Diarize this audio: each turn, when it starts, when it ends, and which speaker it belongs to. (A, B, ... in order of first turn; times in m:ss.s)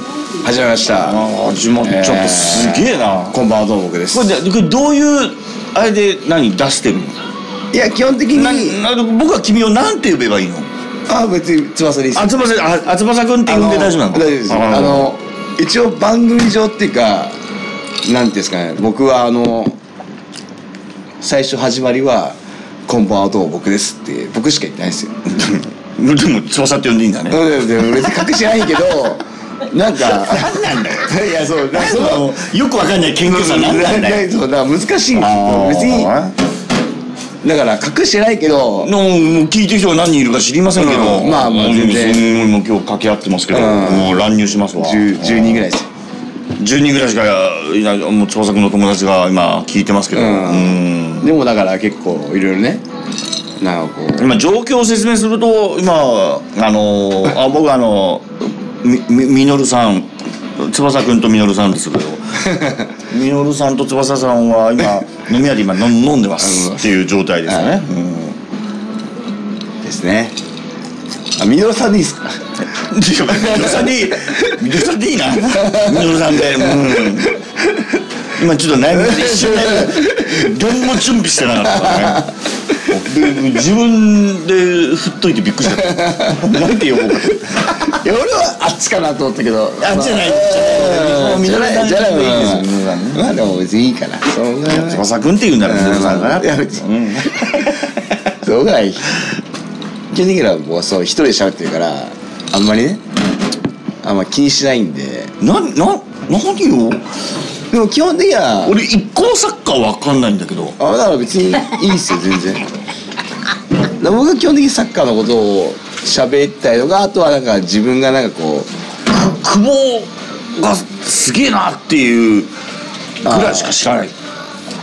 0:00.4-0:01.2 A
0:01.0-0:03.4 B
0:01.8-0:04.3 A
0:04.1-0:07.2 B
0:07.7-0:08.8 A
0:08.3-0:10.7 B
0:11.1-0:12.4 A
0:12.1-0:15.1 B
0:13.4-0:17.4 A
0:18.0-0:19.8 A
0:21.2-0:25.2 A
0:25.3-0:27.4 B
0:27.3-0:32.4 A
0:29.9-0:34.2 B
0:33.2-0:36.1 A
0:35.1-0:36.3 B
0:37.4-0:38.9 A
0:38.8-0:45.7 B
0:40.7-0:42.2 A
0:43.5-0:44.2 A
0:44.8-0:45.9 A
0:46.6-0:51.3 B
0:50.1-0:52.8 A
0:53.6-0:54.4 A
0:54.2-0:58.3 B
0:58.8-1:08.4 B
1:02.5-1:02.8 A
1:06.4-1:06.9 A
1:07.5-1:07.7 A
1:09.8-1:10.3 A
1:11.4-1:12.4 A
1:12.7-1:17.4 B
1:13.3-1:14.5 A
1:15.6-1:17.0 A
1:18.3-1:27.7 B
1:18.9-1:20.6 A
1:21.6-1:22.2 A
1:25.8-1:26.4 A
1:27.4-1:35.0 A
1:29.8-1:33.3 B
1:34.7-1:37.9 B
1:35.6-1:37.6 A
1:38.4-1:39.2 A
1:40.1-1:43.0 A
1:44.0-1:45.3 A
1:45.4-1:47.0 B
1:47.7-1:48.8 A
1:48.6-1:50.8 B
1:50.8-1:52.8 A
1:54.0-1:58.7 A
1:59.1-2:02.5 B
2:03.2-2:04.1 B
2:03.2-2:03.7 A